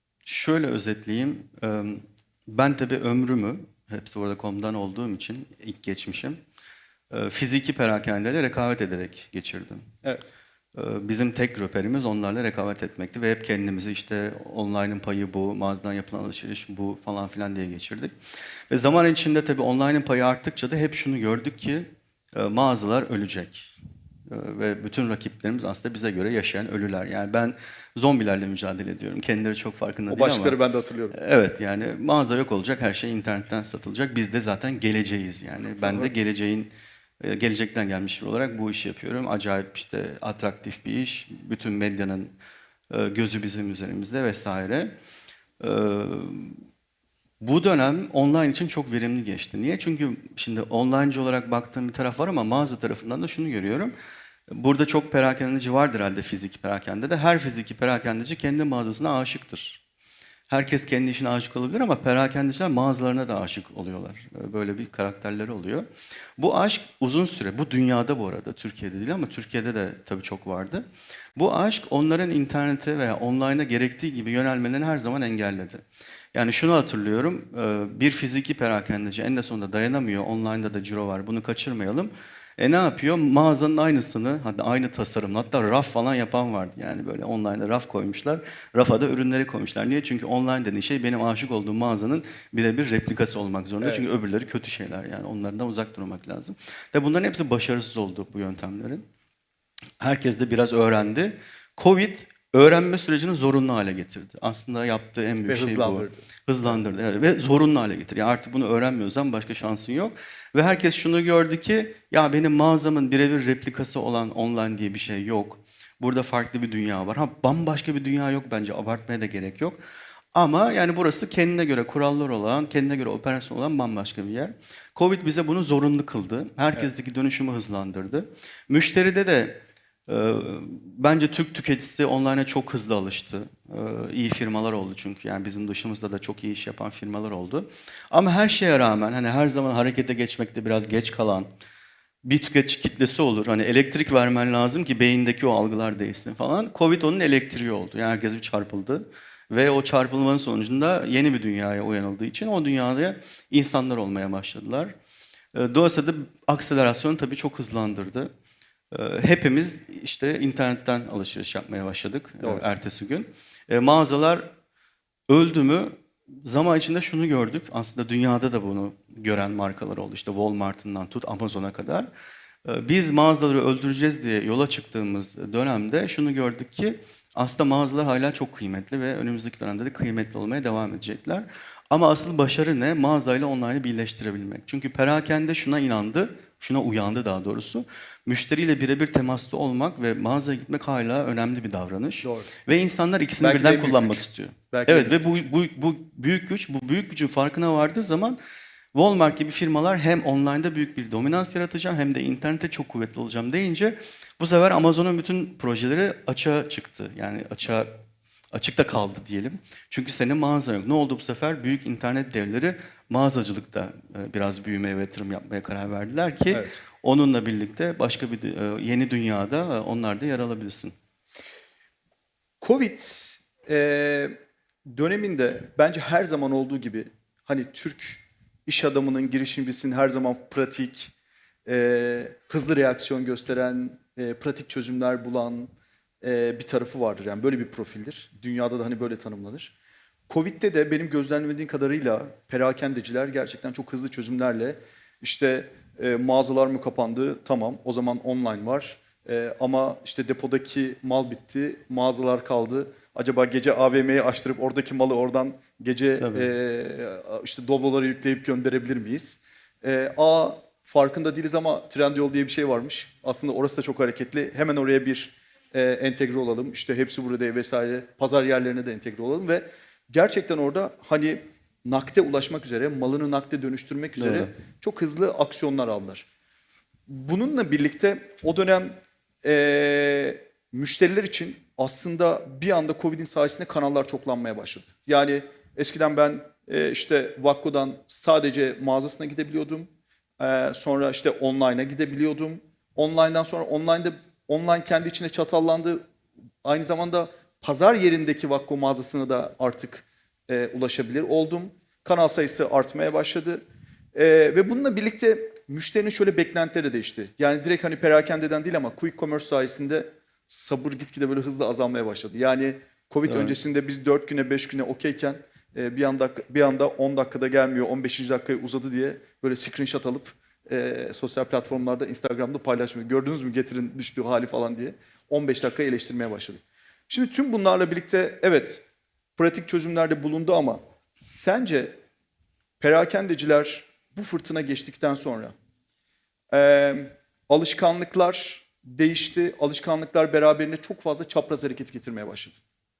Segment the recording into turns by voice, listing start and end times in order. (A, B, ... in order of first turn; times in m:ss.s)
0:00.3-0:06.4 A
0:07.1-0:09.8 A
0:10.8-0:18.1 A
0:18.7-0:23.7 A
0:24.3-0:30.6 A
0:30.1-0:31.2 B
0:31.1-0:42.3 A
0:35.8-0:36.1 B
0:42.9-0:44.9 A
0:45.6-0:46.6 A
0:47.4-0:53.9 A
0:54.5-0:59.8 A
1:00.5-1:10.8 A
1:11.4-1:15.8 A
1:16.3-1:39.1 A
1:33.8-1:34.1 B
1:40.0-1:59.8 A
1:45.5-1:46.3 B
2:00.3-2:21.5 A
2:22.2-2:34.9 A
2:35.5-2:38.3 A
2:38.9-2:44.5 A
2:45.3-2:52.1 A
2:52.6-3:18.4 A
3:12.2-3:12.5 B
3:13.4-3:15.2 B
3:18.9-3:27.9 A
3:28.5-3:41.0 A
3:36.5-3:36.8 B
3:42.6-3:51.1 B
3:51.7-3:55.7 B
3:56.2-3:59.7 B
4:00.3-4:36.3 B
4:16.2-4:16.5 A
4:34.2-4:34.5 A
4:37.1-4:49.9 B
4:50.4-4:56.0 B
4:56.6-5:03.6 B
5:04.2-5:28.8 B
5:13.3-5:13.6 A
5:29.4-5:32.0 B
5:32.8-5:35.5 B
5:36.5-5:42.6 B